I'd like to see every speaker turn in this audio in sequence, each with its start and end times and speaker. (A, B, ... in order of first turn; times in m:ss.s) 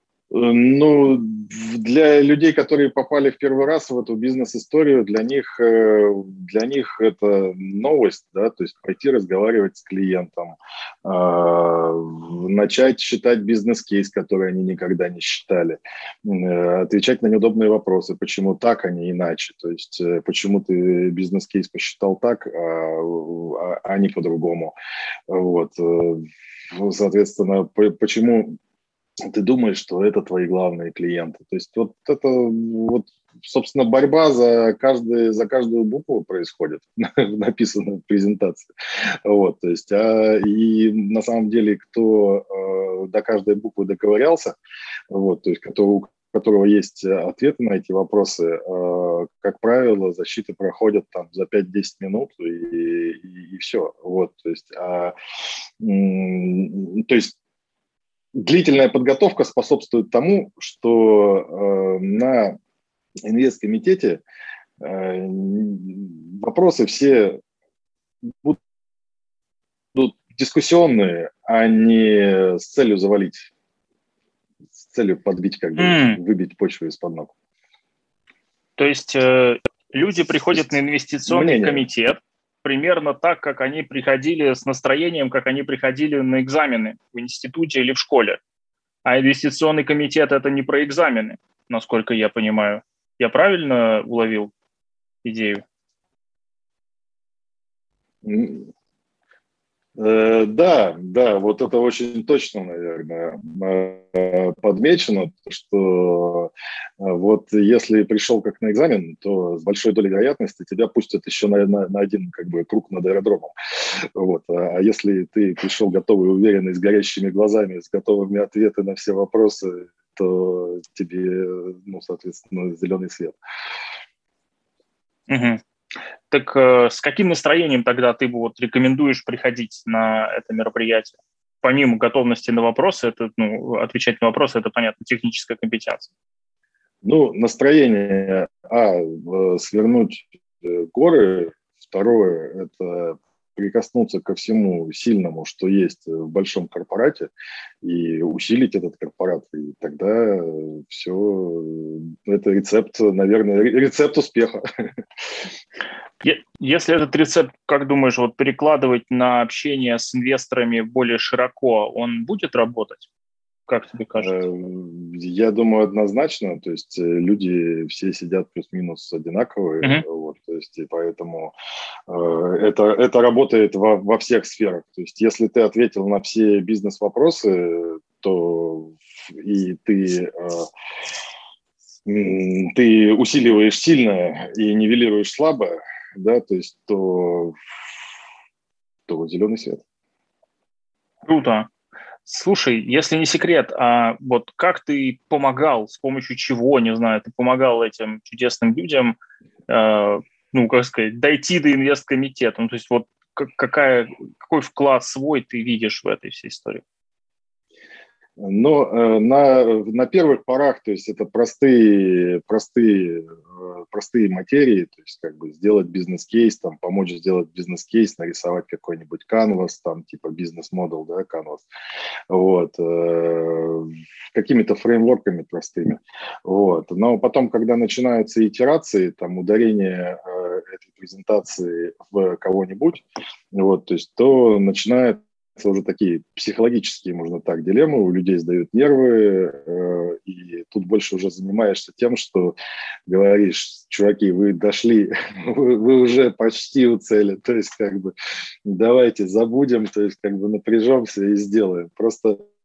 0:00.3-0:24.8 A
0:25.3-0:28.6 A
0:29.3-0:44.6 A
0:45.1-0:55.2 A
0:55.8-0:57.4 A
0:58.4-1:02.6 A
1:03.3-1:04.2 A
1:04.8-1:07.4 A
1:08.3-1:08.6 A
1:09.9-1:13.5 A
1:14.8-1:17.3 A
1:15.8-1:16.2 B
1:18.8-1:28.4 B
1:21.3-1:21.8 A
1:29.0-1:34.5 B
1:35.2-1:35.6 B
1:38.2-1:38.7 A
1:40.0-2:03.4 A
2:05.3-2:05.6 B
2:06.3-2:16.1 B
2:17.0-2:27.3 A
2:27.8-2:34.6 A
2:36.2-2:43.1 B
2:43.7-2:44.4 B
2:44.2-2:51.5 A
2:52.1-3:00.7 A
3:02.1-3:07.6 A
3:09.1-3:09.8 A
3:11.3-3:11.7 B
3:12.3-3:19.2 B
3:19.7-3:26.8 B
3:28.4-3:41.7 A
3:42.3-4:02.6 A
4:03.1-4:08.1 A
4:08.7-4:12.4 A